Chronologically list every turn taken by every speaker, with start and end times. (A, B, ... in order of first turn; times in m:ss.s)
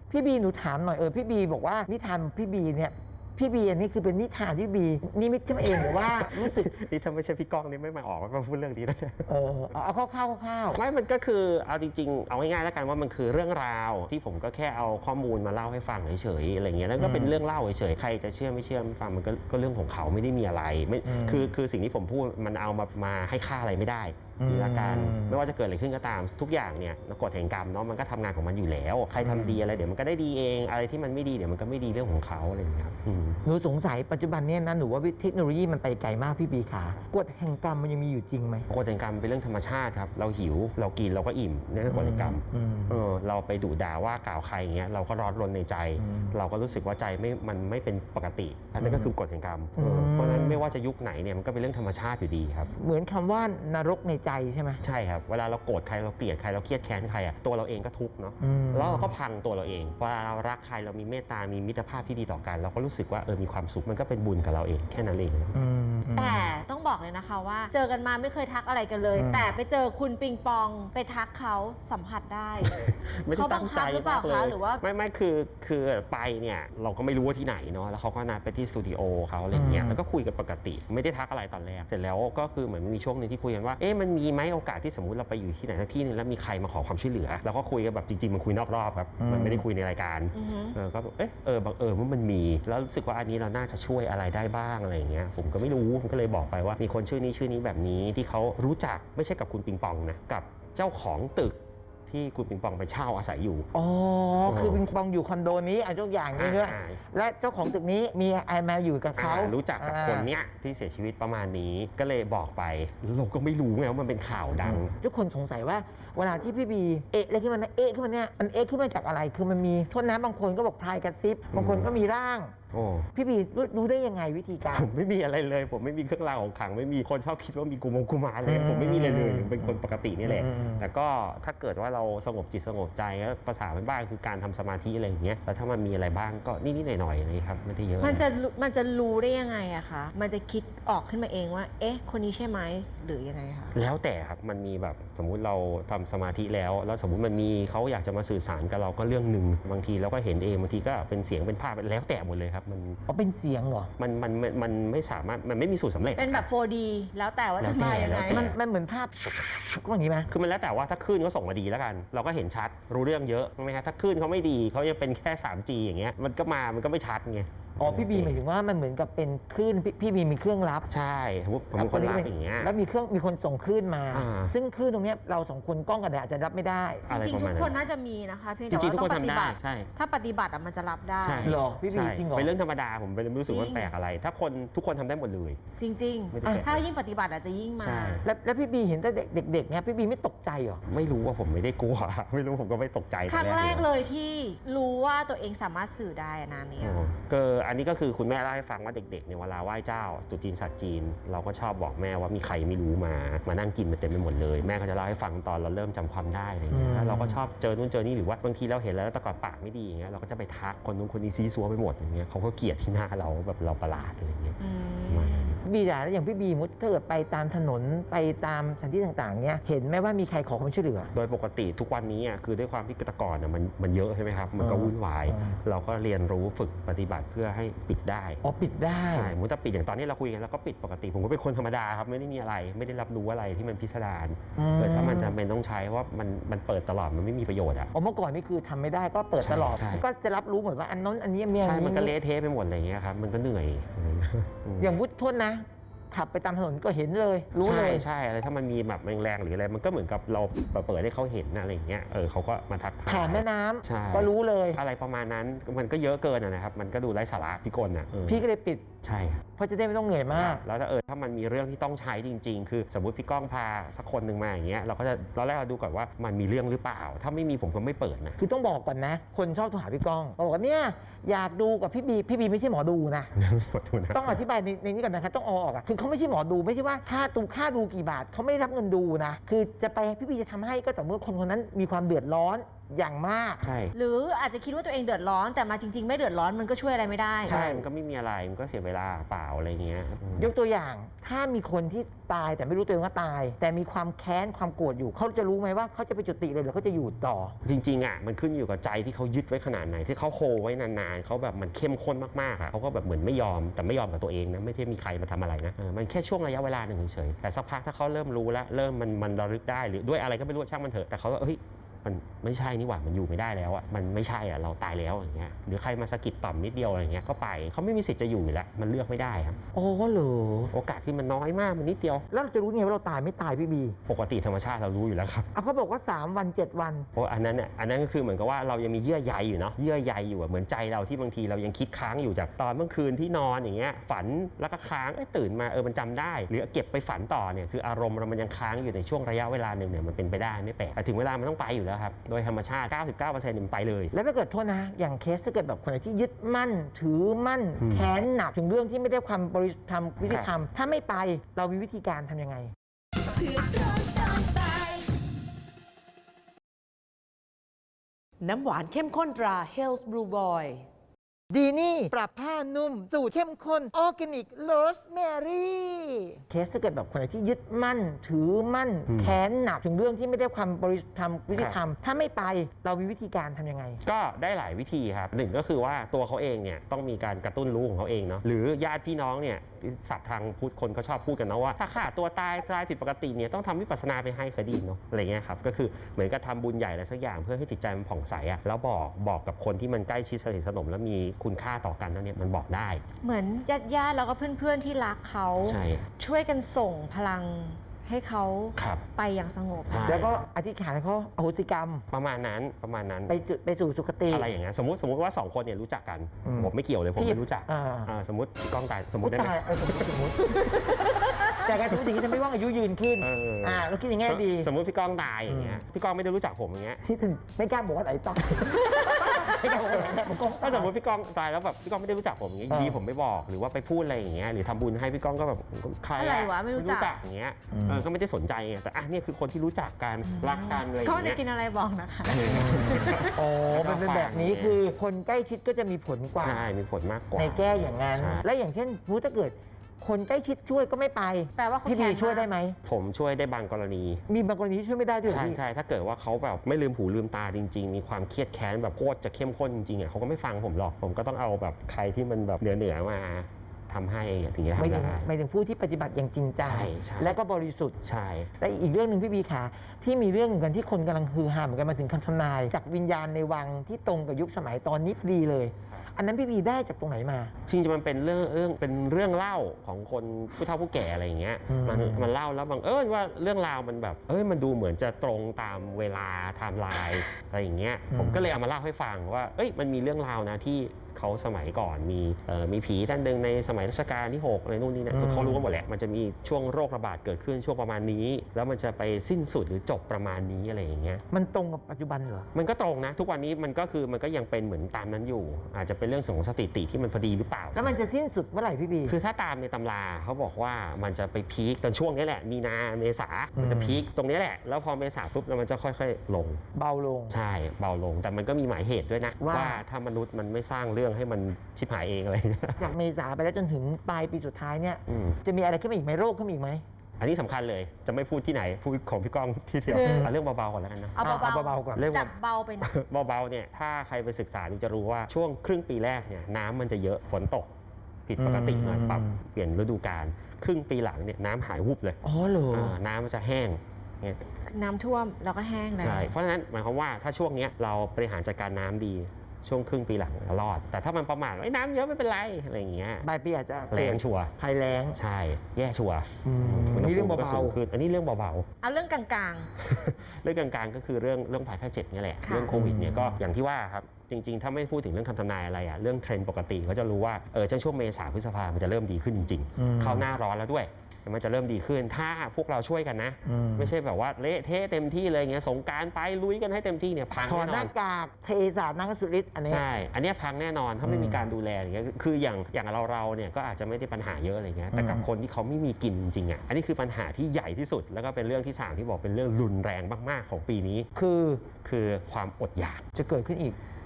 0:00.1-0:06.7 A
0:05.8-0:09.3 B
0:09.3-0:10.8 A
0:10.7-0:33.4 B
0:17.0-0:17.4 A
0:21.0-0:21.5 A
0:24.4-0:25.4 A
0:29.2-0:29.6 A
0:33.4-0:38.7 A
0:38.7-0:52.7 B
0:41.9-0:43.0 A
0:46.0-0:46.3 A
0:48.8-0:49.1 A
0:49.8-0:50.6 A
0:52.8-0:54.8 A
0:54.8-1:05.5 B
0:58.4-0:59.1 A
1:05.5-1:06.4 A
1:06.1-1:12.8 C
1:09.2-1:09.5 A
1:12.6-1:43.7 B
1:13.3-1:14.8 C
1:19.5-1:20.0 A
1:29.2-1:29.6 A
1:30.3-1:30.7 C
1:43.7-1:50.3 A
1:44.4-1:44.8 B
1:46.4-1:47.0 B
1:49.2-1:54.9 B
1:54.6-2:02.5 A
2:01.5-2:01.9 B
2:02.7-2:03.1 B
2:03.1-2:04.9 A
2:04.7-2:18.2 B
2:08.4-2:10.9 A
2:18.0-2:23.8 C
2:23.7-2:33.0 B
2:33.1-2:33.9 A
2:34.0-2:36.4 B
2:36.2-2:38.5 C
2:37.6-2:38.6 B
2:37.8-2:40.3 A
2:40.3-2:48.4 B
2:47.8-2:50.9 A
2:50.9-2:52.7 B
2:51.8-2:57.0 A
2:54.1-2:54.5 B
2:57.1-2:57.7 B
2:57.1-3:01.5 C
2:58.7-2:59.9 B
3:01.2-3:05.6 B
3:01.4-3:02.5 A
3:03.5-3:03.9 C
3:05.8-3:08.2 C
3:06.3-3:06.8 B
3:07.8-3:08.2 B
3:08.2-3:10.8 A
3:10.9-3:13.8 B
3:13.3-3:17.1 C
3:16.8-3:34.6 B
3:26.7-3:27.4 A
3:34.6-3:35.5 C
3:35.1-3:35.6 B
3:35.6-3:41.1 A
3:41.1-3:48.4 B
3:44.6-3:45.6 A
3:48.4-3:49.3 A
3:49.1-3:57.9 B
3:54.6-3:55.4 A
3:57.9-4:02.1 A
3:59.4-4:00.0 B
4:01.6-4:04.9 B
4:04.8-4:08.1 A
4:07.6-4:18.4 B
4:13.0-4:14.8 A
4:18.3-4:18.9 A
4:19.0-4:19.4 B
4:19.6-4:20.6 A
4:20.3-4:28.4 B
4:28.4-4:33.3 A
4:33.4-4:34.4 B
4:34.1-4:43.6 A
4:43.6-4:43.9 B
4:43.9-4:47.6 C
4:47.4-4:50.5 B
4:47.4-4:47.9 A
4:50.4-4:57.6 A
4:57.6-5:19.6 B
5:19.7-5:20.7 A
5:20.7-5:22.2 B
5:22.3-5:24.0 A
5:24.1-5:25.5 B
5:25.5-5:27.1 A
5:27.2-5:44.1 B
5:44.1-5:52.7 A
5:47.8-5:48.1 B
5:58.4-6:00.8 D
6:01.5-6:14.0 A
6:09.1-6:09.4 B
6:14.0-6:33.0 B
6:33.2-6:40.2 C
6:35.6-6:36.0 B
6:38.8-6:39.0 B
6:39.9-6:40.3 B
6:40.0-6:42.0 A
6:42.1-6:43.3 B
6:43.3-6:44.5 A
6:44.3-6:49.6 B
6:46.4-6:48.1 A
6:49.2-6:54.7 A
6:51.3-6:51.5 C
6:53.2-6:57.0 B
6:55.5-6:55.8 A
6:57.0-7:00.9 A
6:58.7-6:59.6 C
7:00.6-7:11.4 B
7:02.7-7:03.0 A
7:06.2-7:07.1 C
7:07.7-7:08.0 A
7:10.2-7:13.3 C
7:12.3-7:14.8 B
7:12.5-7:16.6 A
7:16.4-7:18.4 B
7:17.3-7:22.8 A
7:21.6-7:22.5 C
7:22.8-7:24.2 B
7:24.3-7:25.6 A
7:25.3-7:35.3 B
7:34.8-7:38.0 A
7:36.6-7:37.3 B
7:38.0-7:38.5 B
7:38.6-7:47.5 A
7:47.7-8:11.2 B
7:51.7-7:52.3 A
7:58.1-7:58.5 A
8:05.1-8:05.6 A
8:11.3-8:12.5 A
8:12.5-8:18.0 B
8:17.7-8:19.2 A
8:19.1-8:26.6 B
8:23.6-8:24.0 A
8:26.8-8:27.4 A
8:27.3-8:32.9 B
8:29.4-8:29.8 A
8:32.8-8:36.8 A
8:35.1-8:35.4 B
8:37.2-8:41.4 B
8:39.9-8:40.3 C
8:40.0-8:40.3 A
8:41.2-8:42.9 C
8:41.2-8:42.1 A
8:41.9-8:47.7 B
8:48.3-8:52.2 B
8:48.4-8:49.4 A
8:52.2-8:52.9 A
8:52.7-8:54.4 B
8:54.6-8:56.3 C
8:56.0-9:03.2 B
9:03.2-9:05.2 A
9:03.9-9:04.5 B
9:05.1-9:08.6 B
9:06.4-9:07.8 A
9:08.8-9:09.7 C
9:09.8-9:27.9 B
9:12.4-9:12.7 C
9:12.7-9:13.4 A
9:19.8-9:20.3 A
9:23.4-9:23.9 A
9:27.5-9:29.8 A
9:29.7-9:41.1 B
9:31.0-9:31.4 A
9:34.9-9:35.2 A
9:41.1-9:41.7 A
9:41.8-9:43.0 B
9:43.2-9:43.8 A